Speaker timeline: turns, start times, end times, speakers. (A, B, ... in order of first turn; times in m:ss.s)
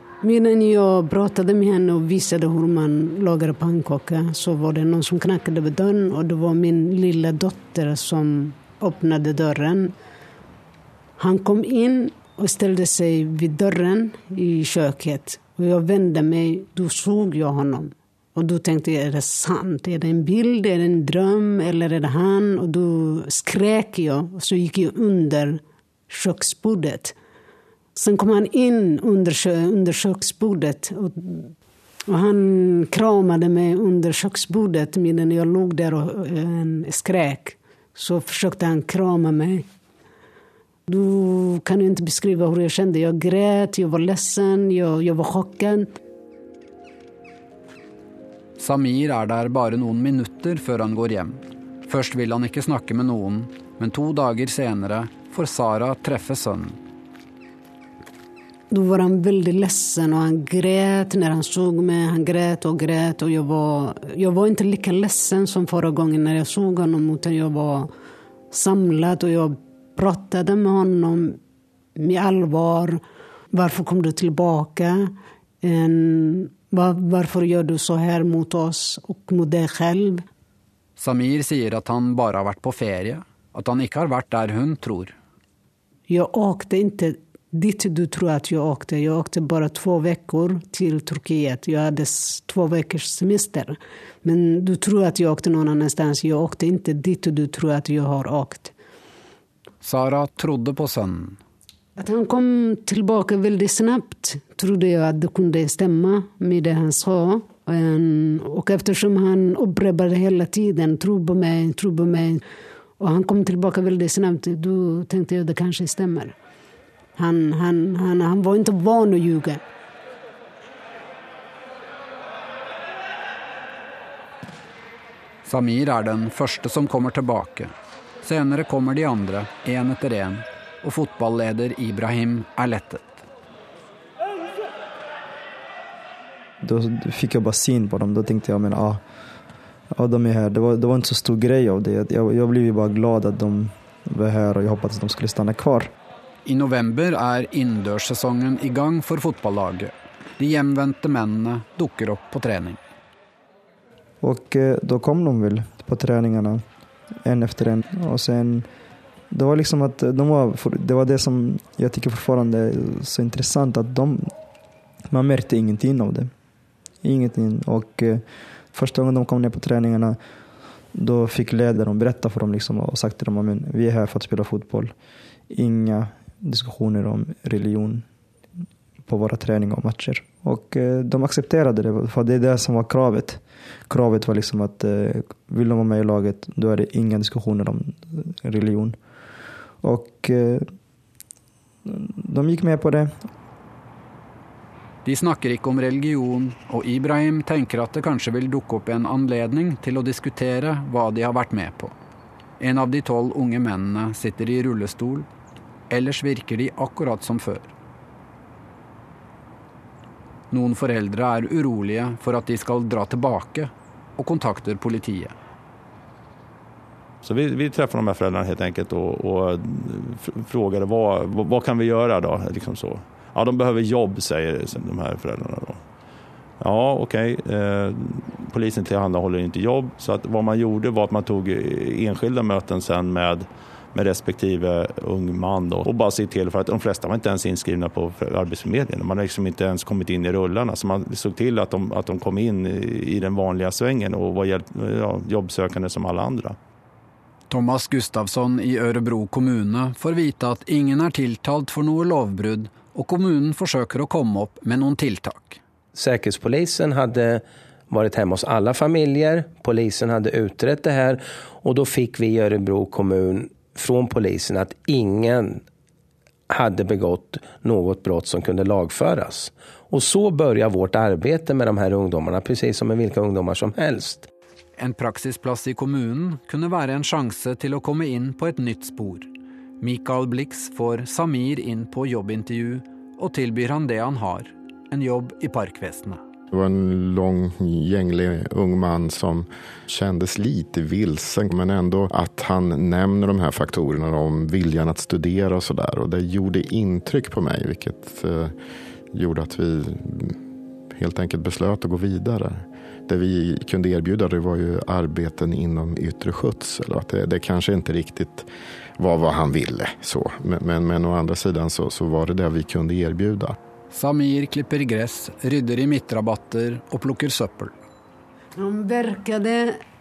0:00.2-0:09.9 A
0:11.2-0:25.6 A
0:26.1-0:27.1 A
0:28.0-0:31.5 A
0:32.1-0:39.6 A
0:40.9-0:45.8 A
0:48.6-0:56.8 B
0:58.7-1:07.9 A
1:08.5-1:11.2 A
1:12.0-1:12.9 A
1:13.5-1:14.9 A
1:15.6-1:20.1 A
1:21.0-1:25.2 B
1:26.1-1:38.7 A
1:39.8-1:41.4 B
1:42.0-1:52.4 A
1:53.0-1:56.3 A
1:57.2-1:59.6 A
2:05.4-2:13.2 B
2:16.6-2:19.0 C
2:19.9-2:25.9 C
2:26.4-2:32.8 B
2:34.2-2:36.6 C
2:37.2-2:38.7 C
2:39.3-2:44.3 C
2:45.1-2:46.3 C
2:47.0-2:50.2 C
2:50.9-2:54.9 C
2:55.5-2:58.0 C
2:59.0-3:09.0 C
3:09.8-3:10.7 C
3:11.8-3:13.2 C
3:15.0-3:21.9 B
3:22.6-3:25.3 B
3:25.9-3:27.7 B
3:30.5-3:35.3 B
3:37.2-3:45.8 D
3:46.6-4:06.6 D
4:07.5-4:15.6 B
4:15.9-4:25.6 E
4:26.5-4:34.3 E
4:34.8-4:39.3 B
4:39.8-4:46.2 B
4:46.5-4:58.5 F
4:59.1-5:00.4 F
5:00.9-5:08.5 F
5:09.0-5:13.6 F
5:13.9-5:17.7 B
5:18.6-5:19.6 A